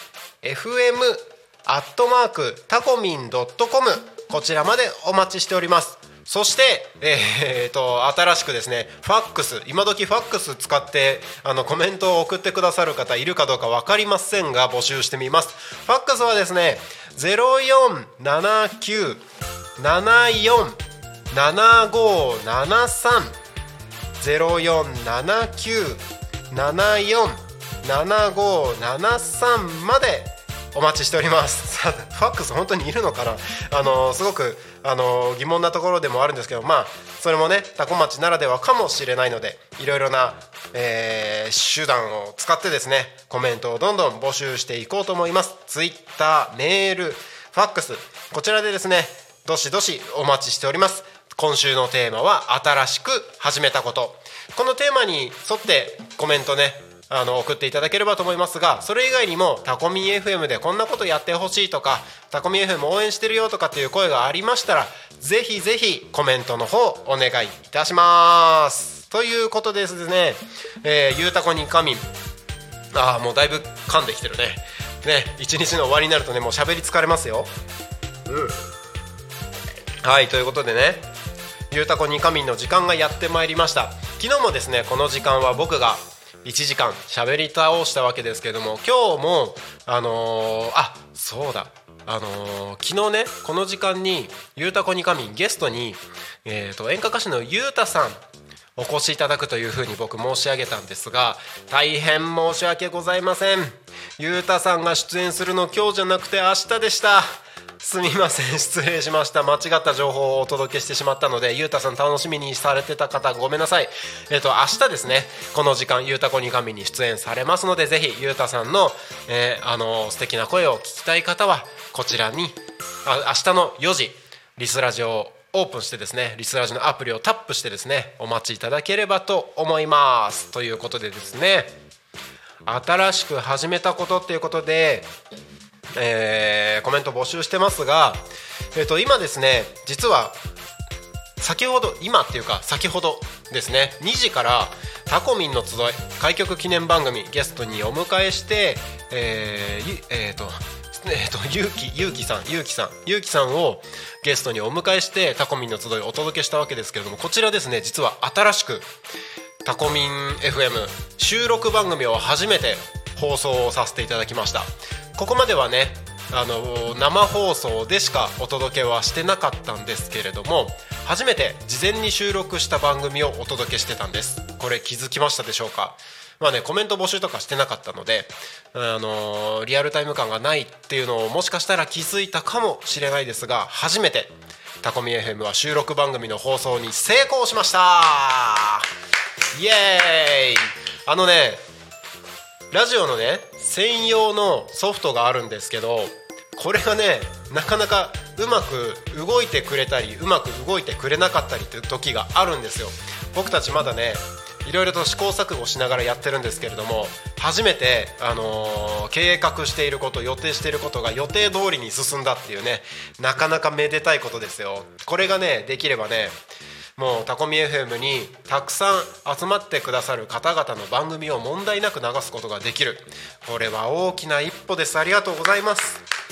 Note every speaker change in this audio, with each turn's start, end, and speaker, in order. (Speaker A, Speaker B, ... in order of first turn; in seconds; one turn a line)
Speaker A: 0.4-19.2
Speaker A: 19.8-20.8
Speaker A: 21.3-23.4
Speaker A: 24.2-72.1
Speaker A: 72.9-77.5
Speaker A: 78.3-78.6
Speaker A: 80.0-81.1
Speaker A: 81.7-98.2
Speaker A: 98.8-131.8
Speaker A: 132.7-135.1
Speaker A: 135.9-140.4
Speaker A: 141.4-158.9
Speaker A: 159.7-188.9
Speaker A: 189.5-191.6
Speaker A: 192.7-216.3
Speaker A: 217.0-226.0